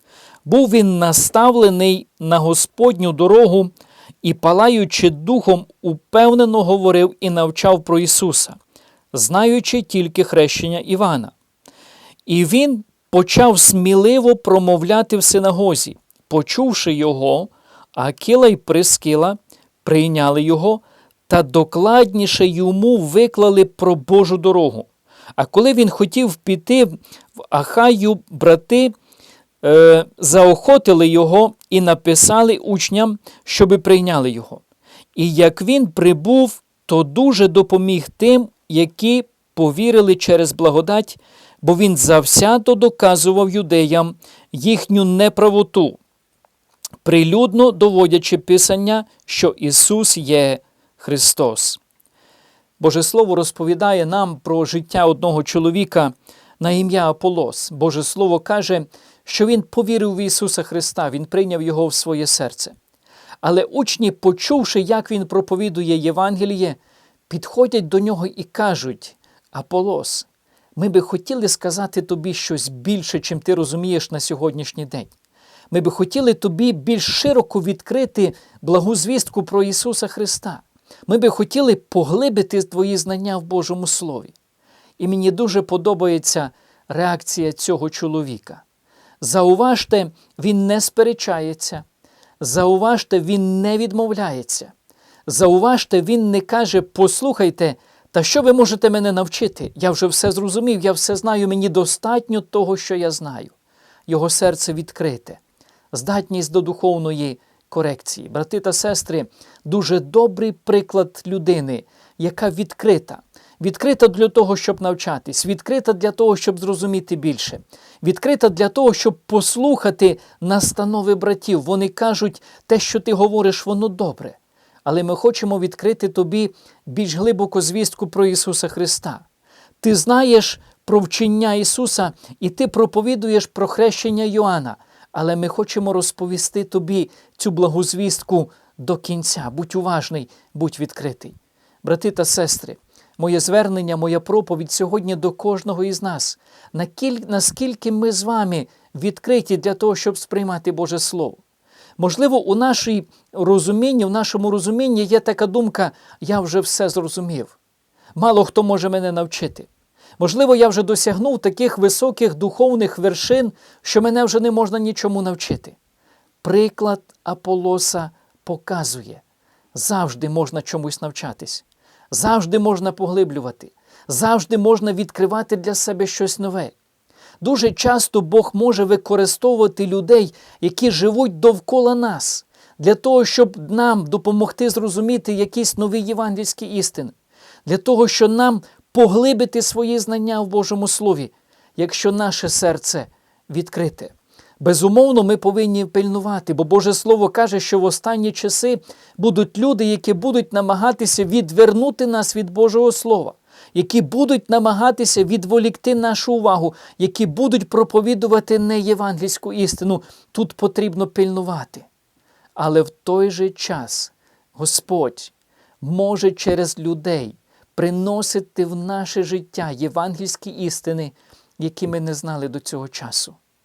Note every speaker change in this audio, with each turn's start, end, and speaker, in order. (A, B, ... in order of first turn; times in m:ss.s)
0:00.4-0:08.6 A
0:09.1-0:11.4 A
0:12.3-0:29.0 A
0:29.6-0:34.6 A
0:35.2-0:46.0 A
0:47.0-0:51.8 A
0:52.8-1:02.8 A
1:03.4-1:15.1 A
1:15.7-1:24.3 A
1:25.0-1:28.6 A
1:29.2-1:31.8 A
1:32.4-1:34.7 A
1:35.3-1:43.6 A
1:44.1-1:45.4 A
1:45.9-2:09.2 A
2:09.8-2:31.4 A
2:32.0-2:37.6 A
2:38.2-2:45.8 A
2:46.4-2:49.2 A
2:49.7-2:56.8 A
2:57.4-3:31.9 A
3:32.6-3:43.4 A